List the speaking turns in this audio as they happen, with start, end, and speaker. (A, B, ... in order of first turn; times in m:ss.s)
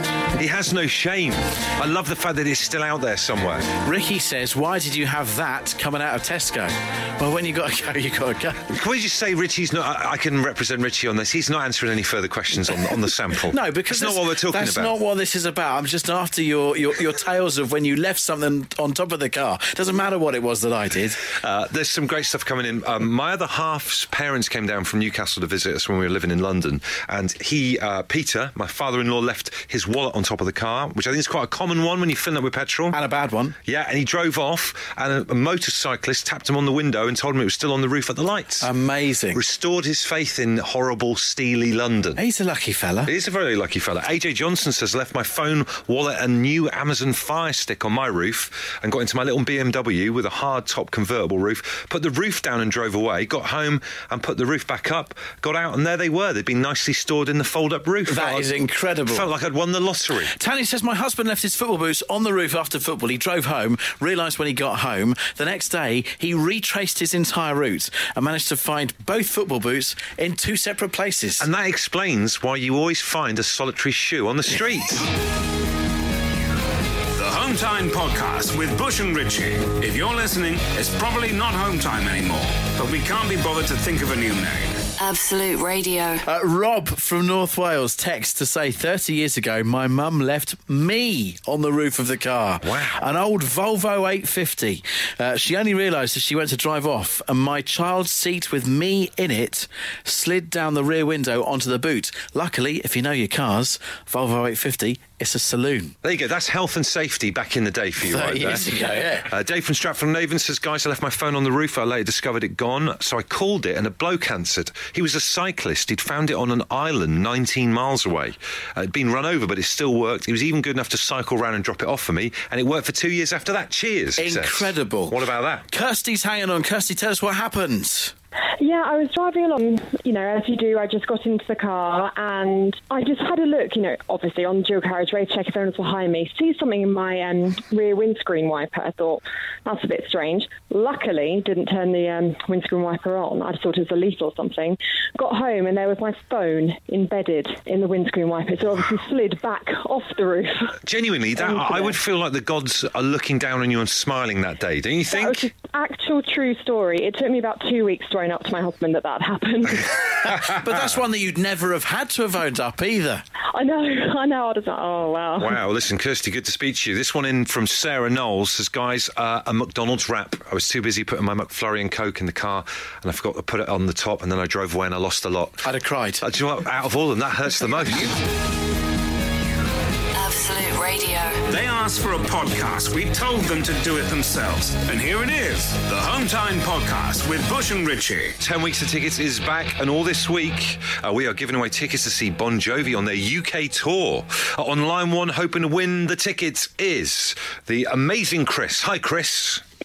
0:00.4-0:03.7 A
0:03.8-0:08.7 B
0:08.7-0:14.9 A
0:13.5-0:21.2 B
0:21.3-0:33.0 A
0:32.9-0:33.6 B
0:33.7-0:38.7 A
0:38.6-0:39.4 B
0:39.3-0:42.2 A
0:42.2-0:43.1 B
0:43.1-0:58.5 A
0:58.1-0:59.3 B
0:59.1-1:00.3 A
1:00.3-1:11.5 B
1:11.4-1:15.1 A
1:17.1-1:24.8 C
1:25.0-1:26.2 D
1:26.2-1:46.0 B
1:32.6-1:33.0 A
1:46.0-1:48.7 A
1:48.0-1:49.3 B
1:49.2-2:05.7 A
2:04.2-2:08.1 B
2:08.6-2:30.8 E
2:30.8-2:35.5 A
2:31.4-2:32.0 E
2:35.1-2:40.2 E
2:40.2-2:43.2 B
2:43.5-2:45.6 E
2:45.4-2:55.7 A
2:55.6-2:56.2 B
2:56.2-2:58.1 A
3:00.2-3:01.4 D
3:01.5-3:08.4 C
3:08.4-3:19.6 A